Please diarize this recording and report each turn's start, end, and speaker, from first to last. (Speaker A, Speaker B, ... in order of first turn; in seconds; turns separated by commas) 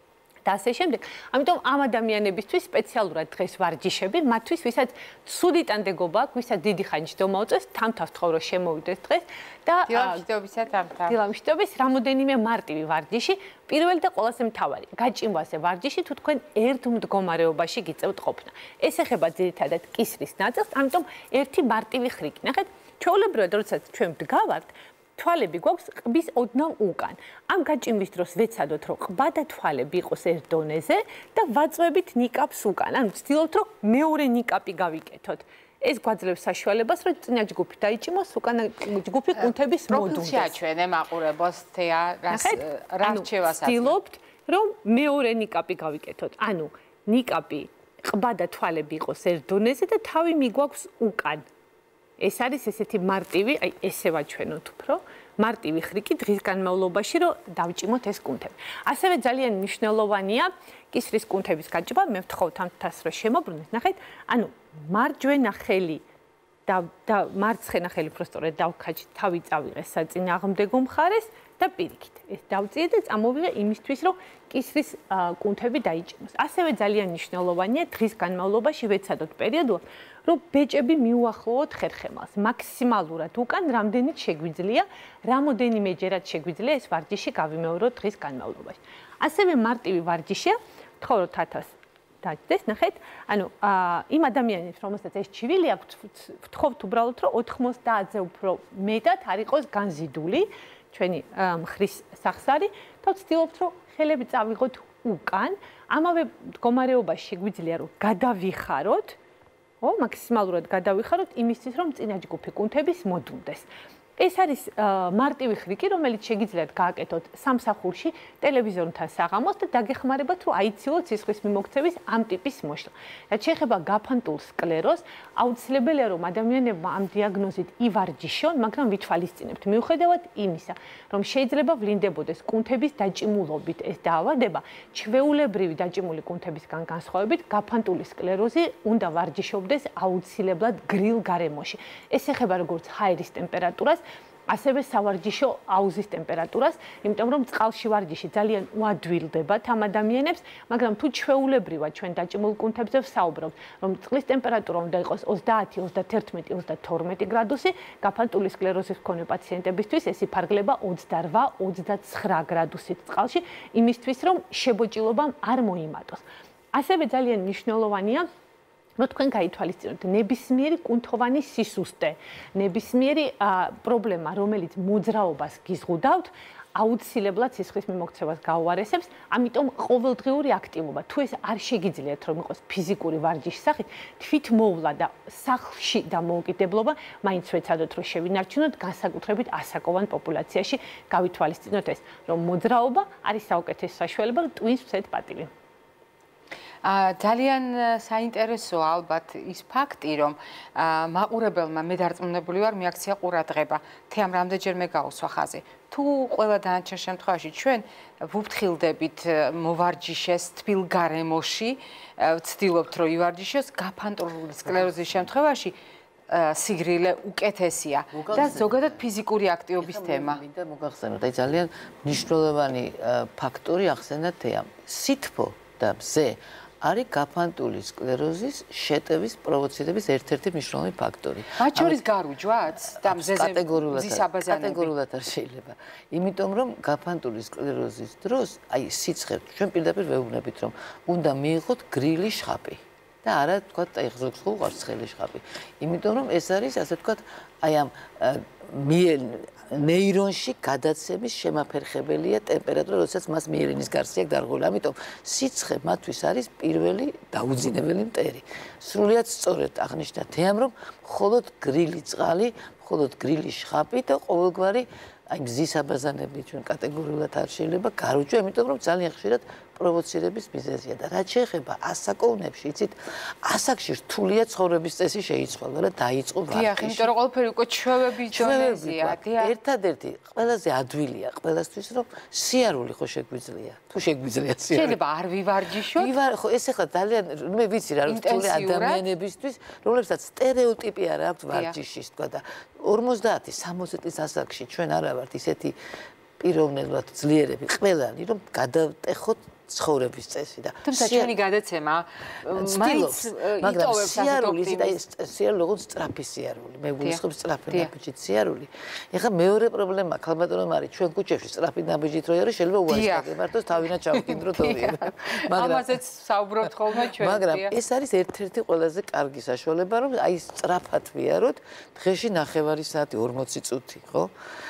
Speaker A: 0.4-10.2, Speaker B: 9.8-11.2, Speaker A: 11.1-40.5, Speaker B: 39.4-44.0, Speaker A: 42.3-51.5, Speaker A: 52.2-66.0, Speaker A: 66.7-91.7, Speaker A: 92.2-109.2, Speaker A: 109.8-168.3, Speaker A: 169.0-195.5, Speaker B: 196.8-215.8, Speaker B: 216.3-220.4, Speaker C: 218.1-219.0, Speaker C: 219.8-232.0, Speaker B: 231.6-234.9, Speaker C: 232.8-277.1, Speaker B: 276.5-279.5, Speaker C: 278.3-285.0, Speaker B: 284.7-286.1, Speaker C: 285.8-295.8, Speaker B: 288.1-289.0, Speaker B: 291.5-291.8, Speaker C: 296.4-301.4, Speaker B: 300.9-305.0, Speaker C: 302.4-316.0, Speaker B: 307.0-307.9, Speaker B: 312.9-313.3, Speaker B: 314.1-317.7, Speaker C: 316.6-324.3